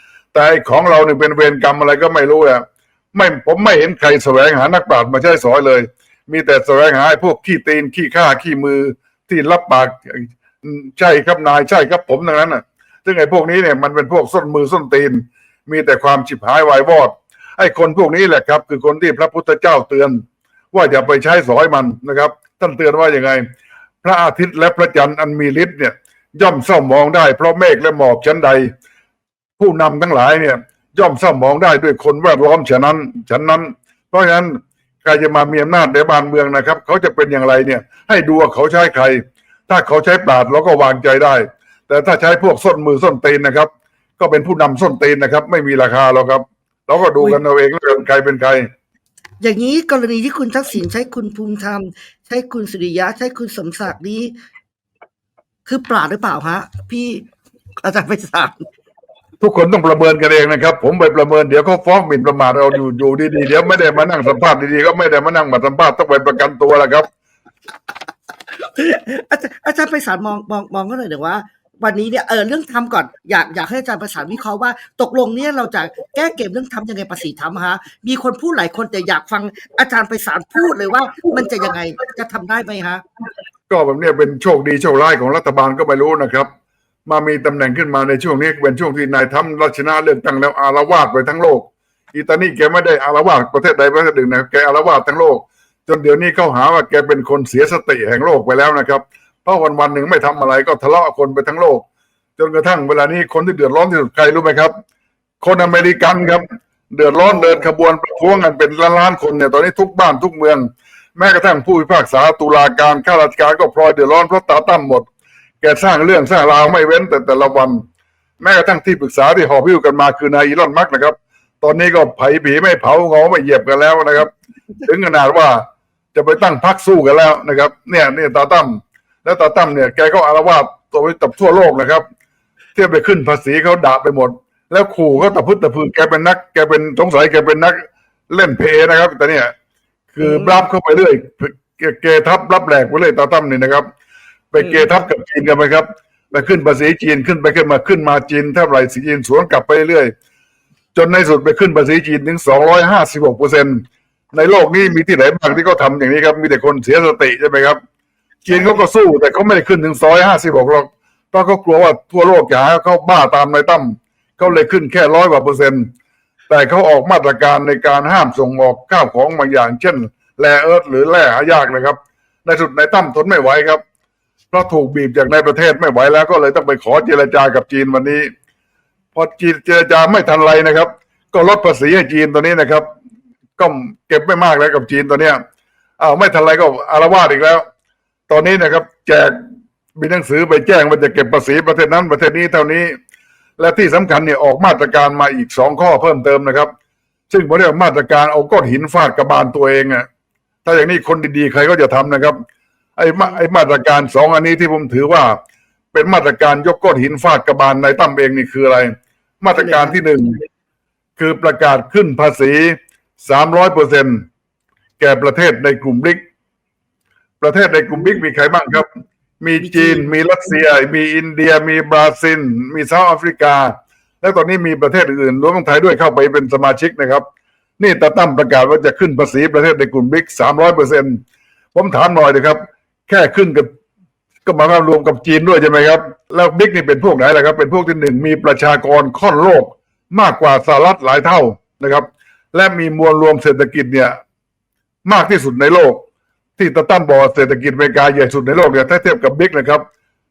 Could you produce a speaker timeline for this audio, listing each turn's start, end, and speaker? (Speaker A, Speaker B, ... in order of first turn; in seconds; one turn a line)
Speaker A: 0.3-23.4
Speaker A: 24.0-28.7
Speaker A: 29.6-48.7
Speaker B: 49.4-54.3
Speaker B: 55.7-57.3
Speaker B: 57.8-58.7
Speaker A: 59.4-67.1
Speaker B: 68.7-83.0
Speaker A: 83.7-86.5
Speaker A: 87.0-101.8
Speaker A: 102.4-104.7
Speaker A: 105.4-115.1
Speaker A: 115.6-117.8
Speaker A: 118.4-124.3
Speaker A: 124.8-132.0
Speaker A: 132.7-139.5
Speaker A: 140.1-143.9
Speaker B: 140.2-140.6
Speaker A: 144.5-150.1
Speaker A: 150.9-157.8
Speaker A: 158.4-165.9
Speaker A: 166.5-173.8
Speaker A: 174.5-178.3
Speaker A: 179.1-182.9
Speaker A: 183.6-185.4
Speaker A: 186.0-187.6
Speaker A: 188.3-189.4
Speaker A: 189.9-192.9
Speaker A: 193.6-196.7
Speaker A: 197.3-200.1
Speaker A: 200.6-202.4
Speaker A: 203.0-205.4
Speaker A: 205.9-210.4
Speaker B: 209.6-210.0
Speaker A: 211.2-214.2
Speaker A: 215.0-216.2
Speaker A: 217.4-218.9
Speaker A: 219.4-227.2
Speaker B: 219.7-220.1
Speaker A: 227.8-231.2
Speaker A: 231.7-233.7
Speaker A: 234.4-244.2
Speaker A: 245.0-246.0
Speaker A: 246.6-249.8